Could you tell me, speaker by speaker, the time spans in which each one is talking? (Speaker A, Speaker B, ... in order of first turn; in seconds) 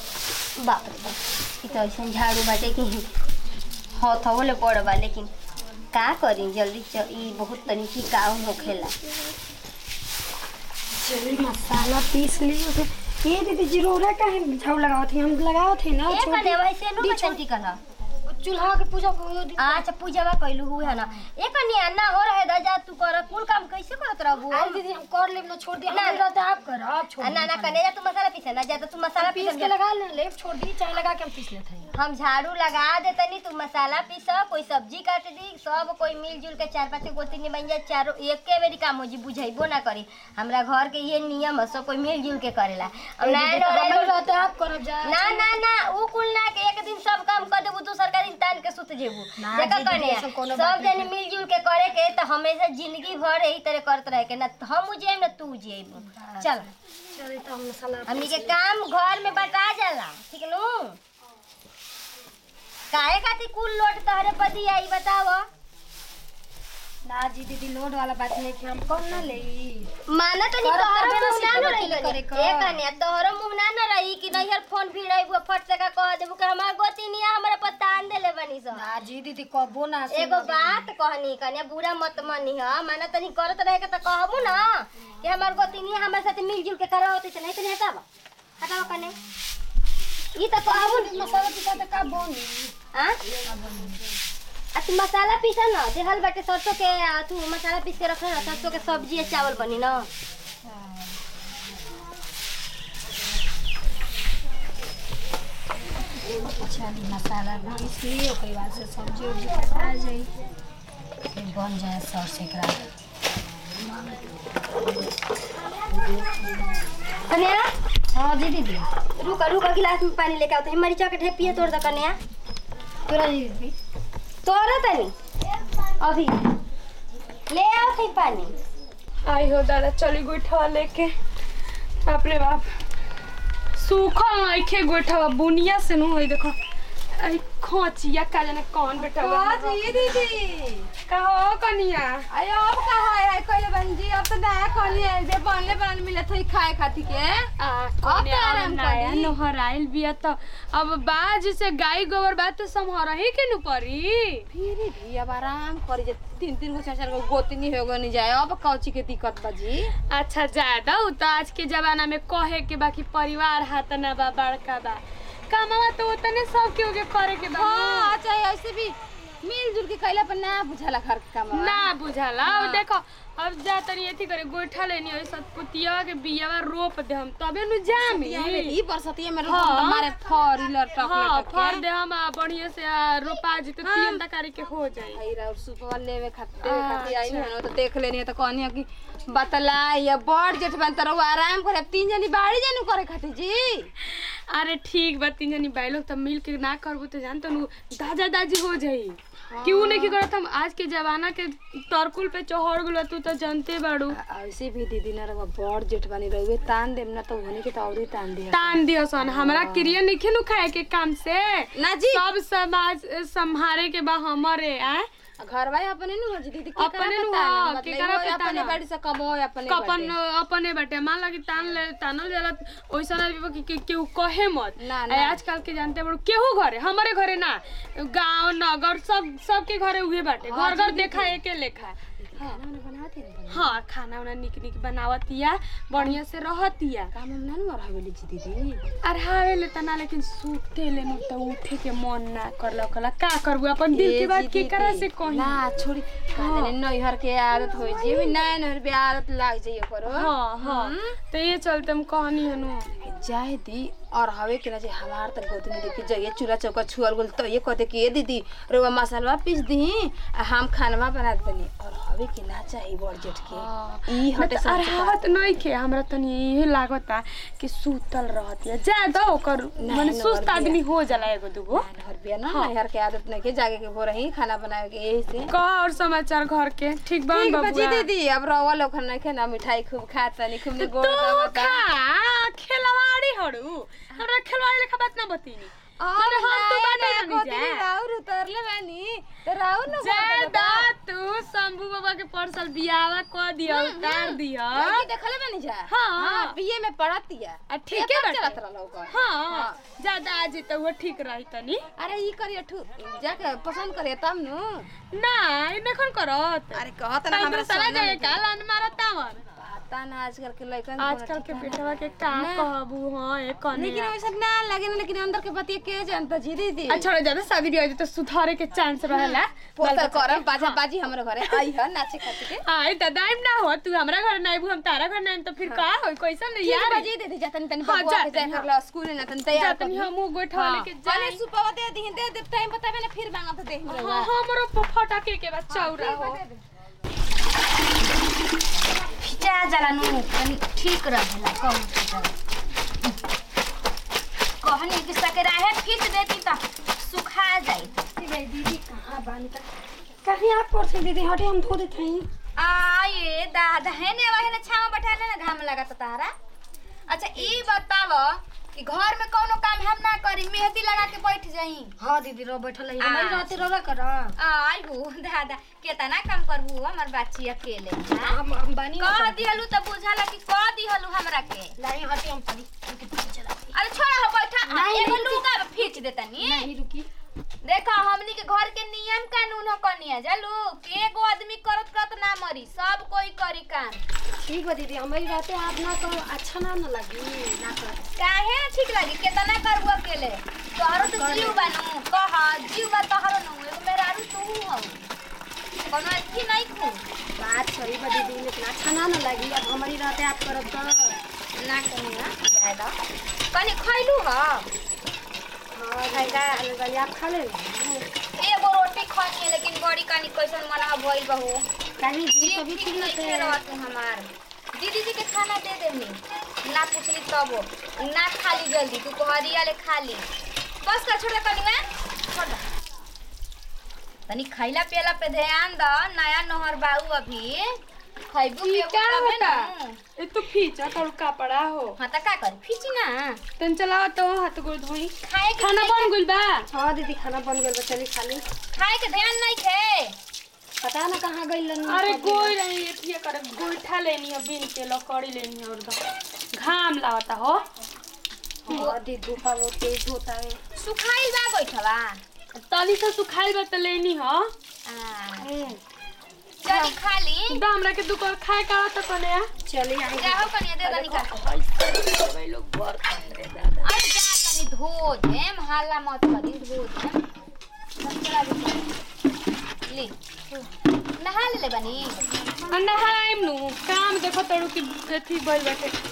Speaker A: 0.6-3.1, 4.0-5.3, 5.9-8.9, 16.1-17.8, 19.6-24.8, 25.9-26.2, 27.2-29.7, 31.9-44.1, 45.0-56.7, 58.1-61.0, 62.9-65.5, 70.1-78.9, 80.1-88.0, 88.6-89.2, 90.3-91.2, 94.8-100.1, 117.3-117.7, 119.1-122.2, 124.4-125.1, 126.0-126.5, 127.5-128.5
Speaker B: 11.0-17.4, 18.3-19.8, 24.5-27.8, 29.2-31.9, 43.2-45.5, 49.4-51.1, 56.2-56.6, 57.1-58.6, 67.0-69.9, 70.6-72.8, 78.8-80.8, 90.7-92.7, 93.3-94.0, 100.7-101.1, 106.4-110.3, 111.3-112.8, 118.1-118.9, 123.1-123.7, 348.2-349.7, 350.2-352.3, 362.0-364.3, 368.2-369.6, 371.8-373.8, 374.6-375.9, 376.4-377.1, 384.3-388.1, 390.9-391.6, 397.4-401.2, 405.7-408.1, 412.0-413.6, 436.7-438.4, 440.8-442.5, 448.7-450.6, 455.4-455.8, 459.7-461.3
Speaker C: 129.2-131.1, 132.0-132.7, 133.7-136.6, 137.1-140.2, 141.1-142.3, 147.6-154.4, 160.1-168.1, 171.5-178.8, 179.4-180.1, 181.0-185.2, 186.6-187.5, 194.0-204.2, 208.5-215.1, 216.8-218.8, 219.7-232.6, 233.5-237.1, 239.0-245.6, 246.4-246.8, 250.1-252.9, 263.5-271.9, 275.5-278.1, 280.7-287.9, 289.9-295.1, 295.9-296.6, 297.7-298.6, 299.1-301.8, 305.1-309.4, 311.0-314.1, 316.9-320.8, 322.5-327.1, 327.8-328.7, 329.5-331.4, 333.9-336.4, 428.6-432.0, 433.6-436.7, 441.9-446.0, 446.5-447.6, 452.5-454.5, 456.7-457.0, 457.5-459.5, 461.2-463.9, 472.7-476.0
Speaker D: 139.0-140.9, 142.3-147.5, 148.0-149.4, 154.5-159.9, 167.5-171.9, 172.4-172.8, 177.9-181.8, 183.8-184.2, 185.1-193.9, 199.5-200.2, 204.1-210.0, 211.8-212.2, 215.4-220.1, 224.8-225.4, 230.4-231.4, 232.2-233.7, 237.1-238.8, 243.9-251.2, 252.9-265.2, 269.8-270.8, 271.8-275.5, 277.3-281.9, 286.0-290.9, 293.7-299.8, 302.0-304.9, 306.7-308.4, 309.6-312.7, 313.7-317.1, 319.3-322.6, 326.6-330.1, 331.0-334.3, 335.7-336.6
Speaker E: 330.5-330.8, 339.1-342.3, 344.6-347.9, 352.6-356.4, 357.1-361.9, 363.0-363.6, 364.4-368.4, 369.0-371.8, 373.7-376.7, 377.6-384.0, 388.2-395.0, 395.9-397.0, 401.6-403.0, 403.5-404.7, 406.1-406.6, 408.4-411.6, 412.3-420.3, 420.8-422.6, 424.3-430.0, 432.0-433.4, 435.2-436.1, 438.8-440.2, 448.7-449.0, 450.8-452.2, 454.9-455.5, 456.6-457.6, 460.1-461.3, 463.8-467.2, 468.0-468.9, 469.9-470.1, 471.2-472.2